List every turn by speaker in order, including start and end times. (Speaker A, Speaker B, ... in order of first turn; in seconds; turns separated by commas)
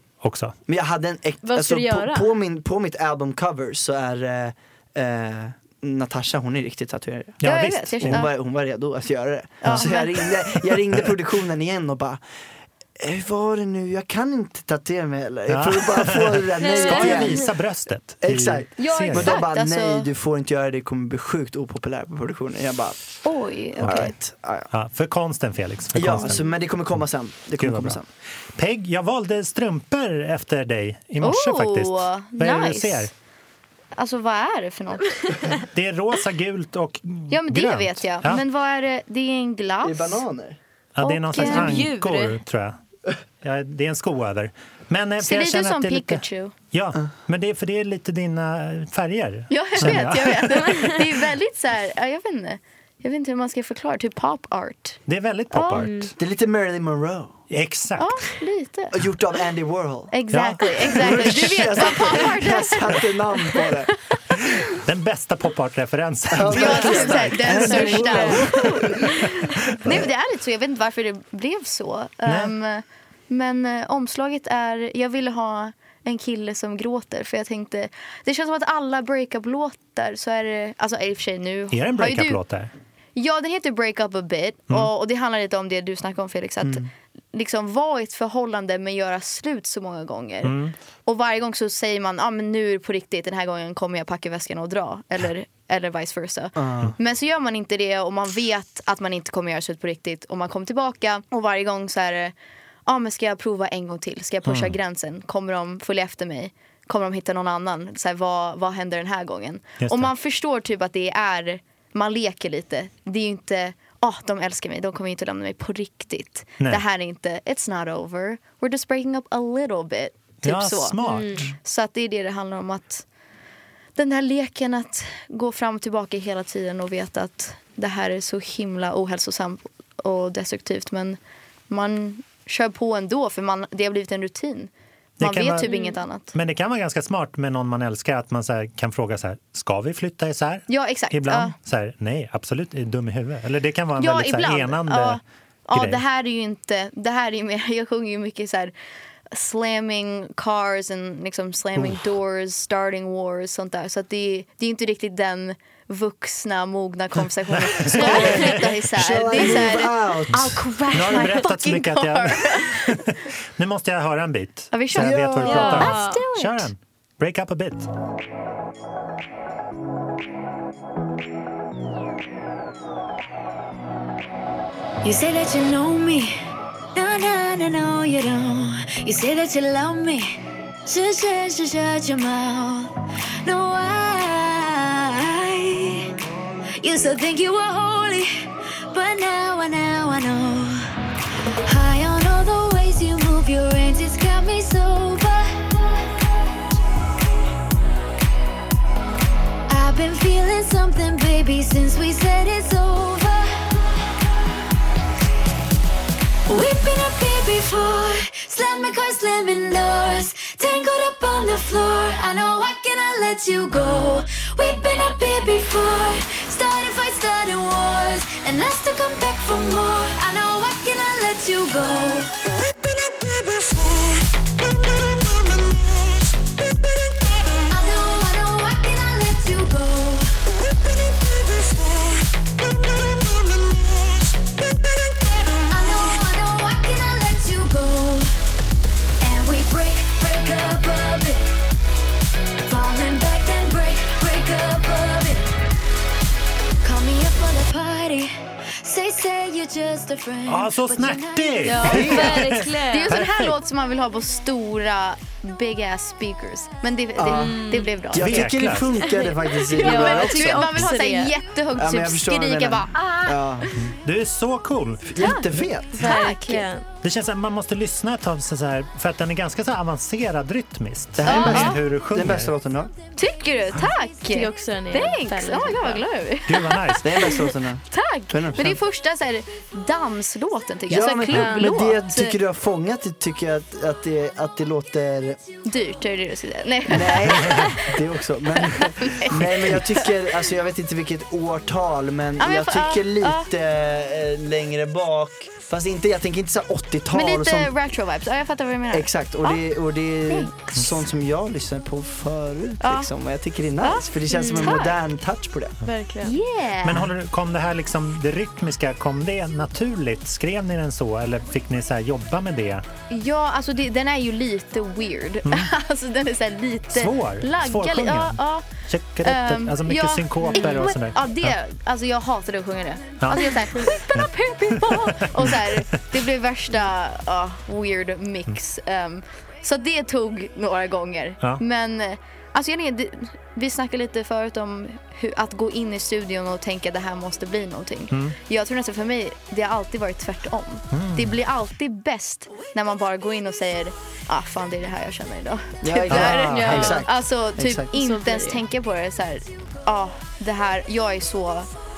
Speaker A: 0.2-0.6, Speaker B: 0.7-12.2, Speaker C: 1.4-2.3, Speaker A: 7.4-8.3, Speaker D: 7.4-8.3, Speaker D: 9.6-10.3, Speaker B: 13.0-17.4, Speaker A: 15.5-19.4, Speaker C: 16.6-17.4, Speaker B: 18.2-23.2, Speaker D: 18.8-20.1, Speaker D: 23.2-24.1, Speaker A: 23.8-24.1, Speaker B: 23.8-24.7, Speaker A: 24.7-26.4, Speaker B: 25.9-28.1, Speaker A: 27.6-28.0, Speaker A: 28.5-33.1, Speaker D: 31.2-33.1, Speaker D: 34.0-35.5, Speaker A: 35.6-38.4, Speaker D: 37.3-40.2, Speaker B: 39.8-40.6, Speaker A: 40.9-42.8, Speaker D: 41.0-41.8, Speaker C: 41.4-42.4, Speaker A: 43.4-50.7, Speaker D: 45.2-46.5, Speaker D: 49.5-55.9, Speaker B: 49.8-50.1, Speaker C: 50.6-50.9, Speaker A: 55.1-56.1, Speaker C: 55.8-56.1, Speaker B: 56.2-57.4, Speaker A: 57.5-58.2, Speaker D: 58.0-59.0, Speaker B: 58.9-60.1, Speaker D: 60.1-64.6, Speaker A: 60.3-61.8, Speaker B: 60.9-63.9, Speaker A: 64.7-68.4, Speaker B: 66.3-69.2, Speaker D: 66.5-82.4, Speaker C: 66.6-68.6, Speaker A: 72.2-72.5, Speaker A: 81.7-82.7, Speaker D: 83.1-102.3, Speaker B: 86.6-86.9, Speaker A: 90.4-90.7, Speaker B: 96.5-97.0, Speaker D: 102.9-121.0, Speaker A: 104.5-104.8, Speaker A: 109.8-110.1, Speaker A: 120.4-121.5, Speaker C: 121.0-121.5, Speaker D: 121.5-123.0, Speaker D: 124.0-131.2, Speaker D: 131.7-136.3, Speaker A: 135.2-135.7, Speaker C: 135.6-136.0, Speaker A: 136.3-145.2, Speaker D: 140.7-141.5, Speaker D: 144.0-148.7, Speaker A: 145.7-146.0, Speaker D: 149.3-163.0, Speaker A: 151.8-152.0, Speaker A: 157.5-159.6, Speaker B: 157.9-160.7, Speaker A: 160.9-167.9, Speaker D: 164.7-166.7, Speaker B: 164.9-165.8, Speaker C: 165.4-166.2, Speaker E: 175.0-176.4, Speaker E: 176.9-186.1, Speaker E: 186.8-190.9, Speaker E: 191.7-196.2, Speaker E: 199.7-203.9, Speaker E: 206.5-222.5, Speaker E: 227.7-230.3, Speaker E: 235.4-238.3, Speaker E: 239.2-241.4, Speaker E: 242.6-245.5, Speaker E: 246.8-252.5, Speaker A: 250.4-253.6, Speaker C: 251.6-253.1, Speaker D: 252.0-258.6, Speaker B: 257.1-260.9, Speaker C: 257.3-258.0, Speaker A: 258.1-259.0, Speaker C: 259.0-261.3, Speaker D: 259.7-263.7, Speaker B: 261.7-263.7, Speaker A: 263.7-265.1, Speaker B: 265.1-266.1, Speaker D: 265.2-266.6, Speaker C: 266.0-266.8, Speaker A: 267.0-272.5, Speaker B: 271.1-272.9, Speaker D: 271.2-271.8, Speaker C: 271.3-271.7, Speaker D: 273.1-277.1, Speaker C: 274.3-276.1, Speaker A: 276.4-277.1, Speaker B: 277.0-278.8, Speaker C: 277.2-277.5, Speaker D: 277.9-282.3, Speaker B: 280.9-285.4, Speaker C: 281.3-281.9, Speaker D: 285.6-288.0, Speaker B: 286.9-297.8, Speaker A: 287.4-287.7, Speaker D: 288.6-290.1, Speaker D: 292.4-293.5, Speaker D: 297.1-299.6, Speaker B: 298.9-305.8, Speaker D: 300.3-300.5, Speaker D: 302.8-303.1, Speaker D: 303.8-305.0, Speaker C: 304.3-304.8, Speaker C: 305.8-306.4, Speaker D: 306.2-307.1, Speaker A: 306.8-312.9, Speaker D: 313.1-318.7, Speaker A: 315.4-315.7, Speaker A: 316.9-321.6, Speaker D: 319.2-351.7, Speaker C: 320.5-320.8, Speaker A: 323.2-324.3, Speaker A: 324.8-325.8, Speaker A: 338.1-338.4, Speaker A: 340.9-341.4, Speaker B: 345.8-347.9, Speaker A: 346.1-347.0, Speaker C: 346.2-347.1, Speaker C: 347.9-348.6